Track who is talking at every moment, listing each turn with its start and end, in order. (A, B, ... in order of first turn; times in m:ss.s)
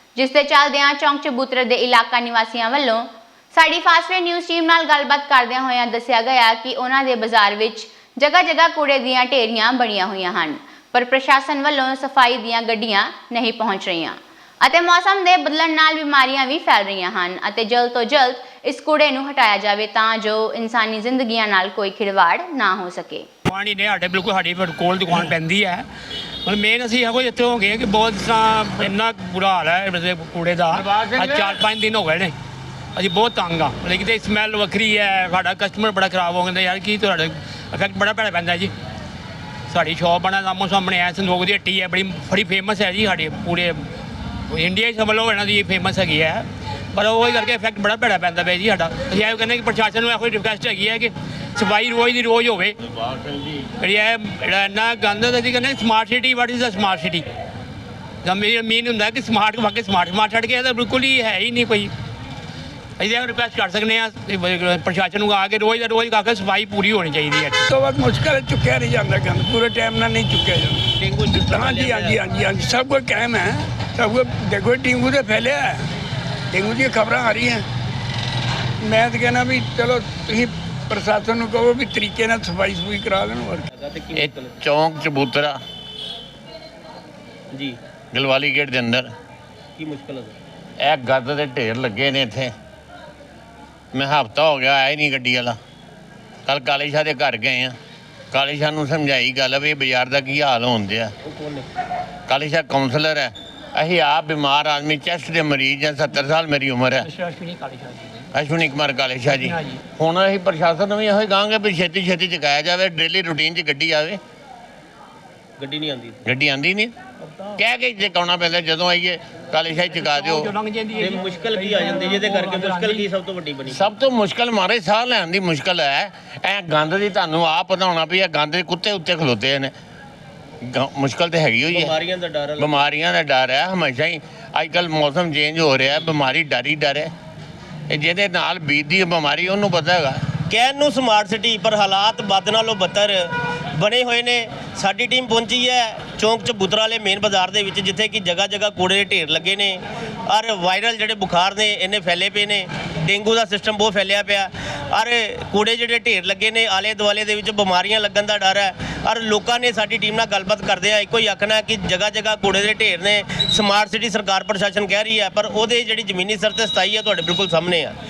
0:00.2-0:23.3 A
0:23.4-0:25.8 B
0:26.4-0:32.3 B
0:30.7-0:31.6 C
0:32.9-0:38.7 B
0:39.7-0:43.8 B
0:44.5-0:52.8 B
0:52.8-0:53.7 C
0:53.8-0:57.2 B
0:58.2-1:01.9 B
1:03.0-1:07.6 B
1:07.7-1:15.8 D
1:11.0-1:12.2 E
1:16.5-1:17.6 D
1:18.8-1:23.7 D
1:23.7-1:24.6 E
1:24.2-1:25.6 C
1:27.5-1:27.8 E
1:28.1-1:29.1 C
1:29.8-1:30.4 E
1:30.8-1:32.5 C
1:33.9-1:35.6 C
1:36.4-1:37.8 C
1:38.3-1:41.1 C
1:41.2-1:41.7 E
1:42.3-1:47.1 C
1:47.0-1:48.3 B
1:48.3-1:54.2 C
1:49.3-1:49.8 B
1:55.6-1:56.2 E
1:56.2-1:56.9 C
1:57.6-2:00.5 C
1:59.9-2:03.1 B
2:01.0-2:03.8 E
2:03.7-2:09.7 C
2:10.6-2:11.9 C
2:11.7-2:12.8 E
2:12.6-2:17.1 C
2:17.9-2:20.2 C
2:20.5-2:48.0 E